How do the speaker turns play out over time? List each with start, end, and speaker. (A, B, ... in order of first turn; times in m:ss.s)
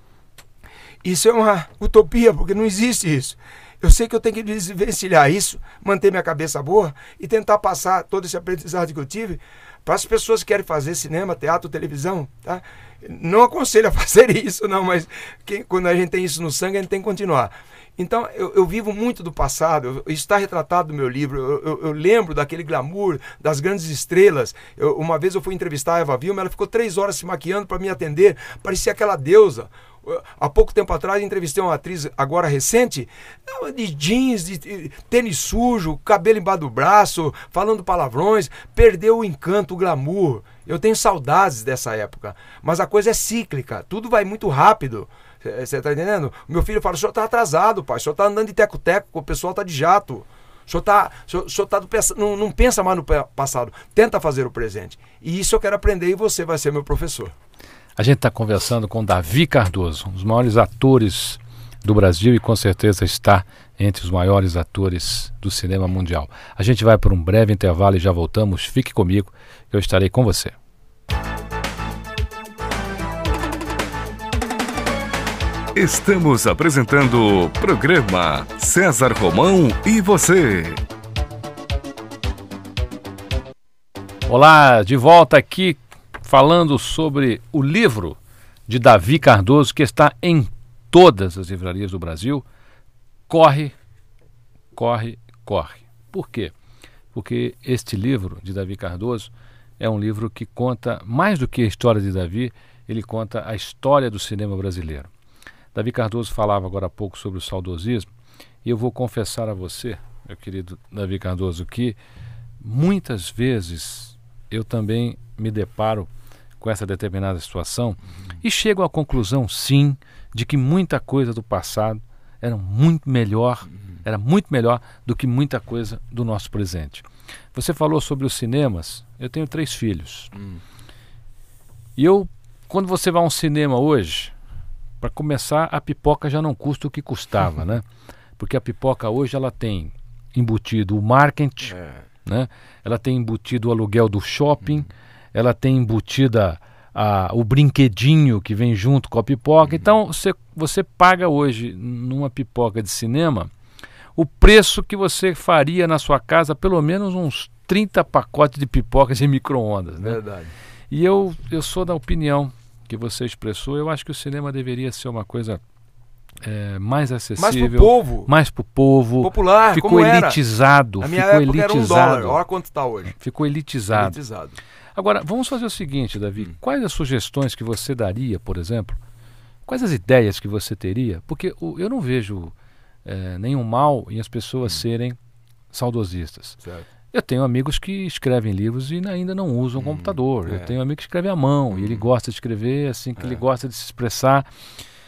0:01.0-0:57.3 A
0:58.0-1:10.6 B
1:15.8-1:20.8 C
1:24.3-1:32.4 B
1:33.3-1:33.8 B
1:34.7-1:36.5 B
1:37.1-1:45.1 B
1:45.7-1:48.1 B
1:48.6-1:52.0 B
1:52.6-1:56.1 B
1:56.6-2:10.4 B
2:12.0-2:14.3 B
2:15.0-2:17.9 B
2:18.4-2:33.5 B
2:34.2-2:40.2 B
2:40.0-2:40.5 A
2:40.9-2:45.6 B
2:46.4-2:52.4 B
2:47.4-2:48.3 A
2:49.2-2:50.4 A
2:51.0-2:53.1 A
2:53.1-2:54.2 B
2:53.9-2:54.6 A
2:55.0-2:59.0 B
2:59.7-3:02.5 B
3:03.0-3:05.2 B
3:05.7-3:06.6 B
3:07.1-3:14.5 B
3:09.8-3:10.7 A
3:11.7-3:12.1 A